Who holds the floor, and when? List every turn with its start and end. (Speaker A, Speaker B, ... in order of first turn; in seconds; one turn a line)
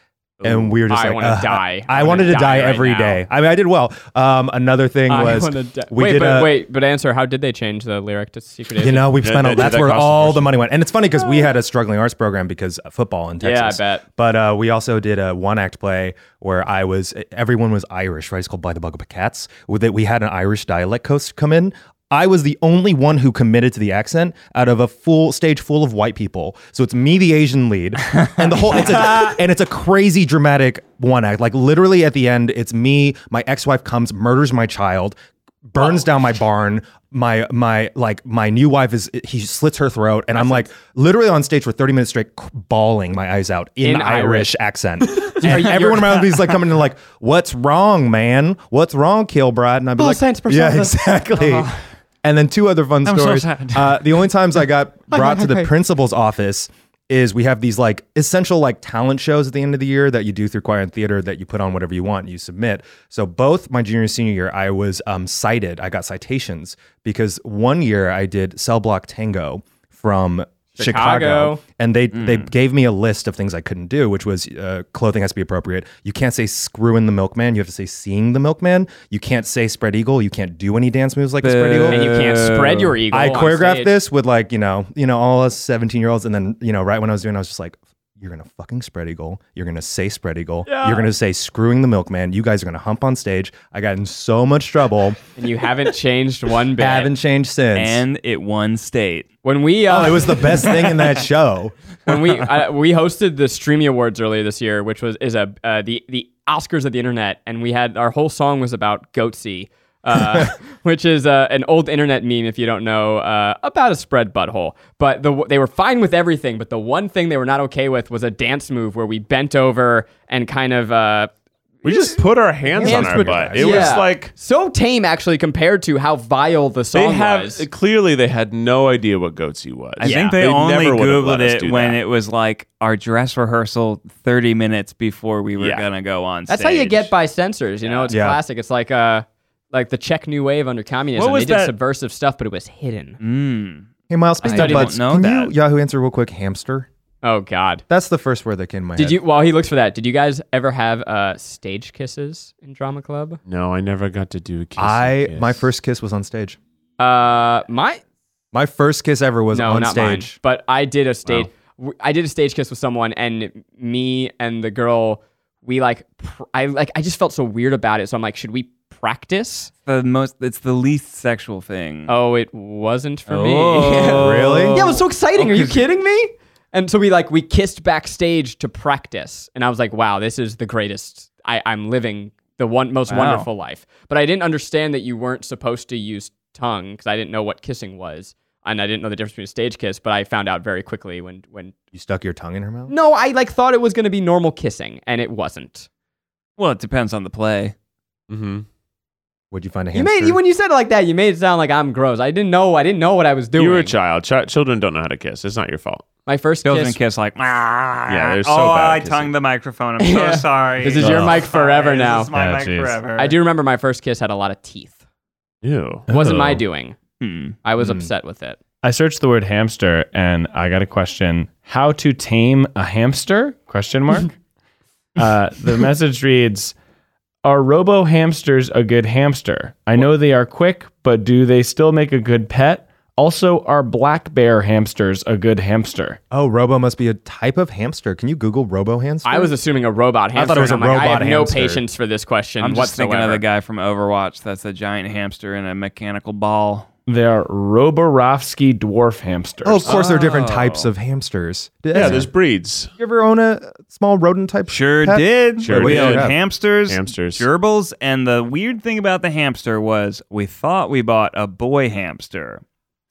Speaker A: 0.4-6.5
Speaker B: 0.4-0.7
Speaker C: 0.9-3.2
Speaker C: 5.1-9.1
Speaker A: 8.8-35.2
Speaker B: 9.2-10.5
Speaker C: 13.4-14.0
Speaker A: 35.7-51.7
Speaker C: 43.8-44.5
Speaker C: 45.1-46.4
Speaker C: 50.0-51.0
Speaker D: 51.4-51.7
Speaker A: 52.2-82.1
Speaker D: 53.0-54.0
Speaker C: 55.1-55.7
Speaker C: 70.8-71.6
Speaker D: 72.1-72.5
Speaker D: 81.4-83.0
Speaker C: 81.9-84.0
Speaker A: 83.1-95.2
Speaker C: 90.7-91.1
Speaker C: 95.4-97.1
Speaker A: 96.8-98.0
Speaker D: 97.8-99.3
Speaker C: 99.5-101.0
Speaker A: 99.9-101.7
Speaker C: 102.1-121.3
Speaker C: 121.8-122.2
Speaker B: 121.8-124.3
Speaker A: 122.7-124.0
Speaker C: 122.8-127.7
Speaker B: 126.9-132.0
Speaker D: 130.0-137.1
Speaker C: 130.0-130.4
Speaker B: 135.6-135.9
Speaker C: 136.5-143.2
Speaker A: 138.1-138.4
Speaker D: 141.2-141.7
Speaker D: 143.2-143.9
Speaker A: 144.1-146.9
Speaker D: 144.4-145.5
Speaker C: 144.5-144.9
Speaker C: 147.2-147.8
Speaker A: 147.9-149.2
Speaker C: 149.0-153.4
Speaker B: 153.5-155.7
Speaker A: 154.8-156.6
Speaker C: 157.0-158.0
Speaker A: 158.5-160.3
Speaker C: 159.5-169.7
Speaker D: 169.9-172.1
Speaker C: 172.1-191.7
Speaker D: 173.3-175.0
Speaker A: 174.1-174.9
Speaker A: 175.4-175.8
Speaker D: 183.1-183.5
Speaker A: 191.9-192.9
Speaker C: 192.9-195.9
Speaker D: 196.6-197.7
Speaker B: 198.3-198.7
Speaker A: 199.5-200.4
Speaker C: 199.9-203.9
Speaker B: 203.6-206.1
Speaker C: 206.3-207.0
Speaker D: 206.7-213.4
Speaker B: 208.1-209.3
Speaker C: 210.0-212.3
Speaker E: 211.0-211.4
Speaker E: 212.3-213.0
Speaker C: 213.2-215.0
Speaker B: 215.6-216.1
Speaker C: 216.1-217.0
Speaker E: 216.1-216.6
Speaker D: 217.2-217.6
Speaker C: 217.6-218.6
Speaker A: 217.8-218.1
Speaker E: 218.8-224.3
Speaker E: 225.2-226.8
Speaker E: 227.4-236.2
Speaker A: 236.3-239.5
Speaker C: 239.2-243.4
Speaker A: 240.3-241.8
Speaker D: 242.6-246.9
Speaker E: 247.1-249.9
Speaker A: 249.6-252.3
Speaker D: 249.8-250.9
Speaker B: 251.9-252.9
Speaker A: 253.0-256.4
Speaker D: 254.7-262.6
Speaker B: 255.6-256.3
Speaker B: 256.9-257.5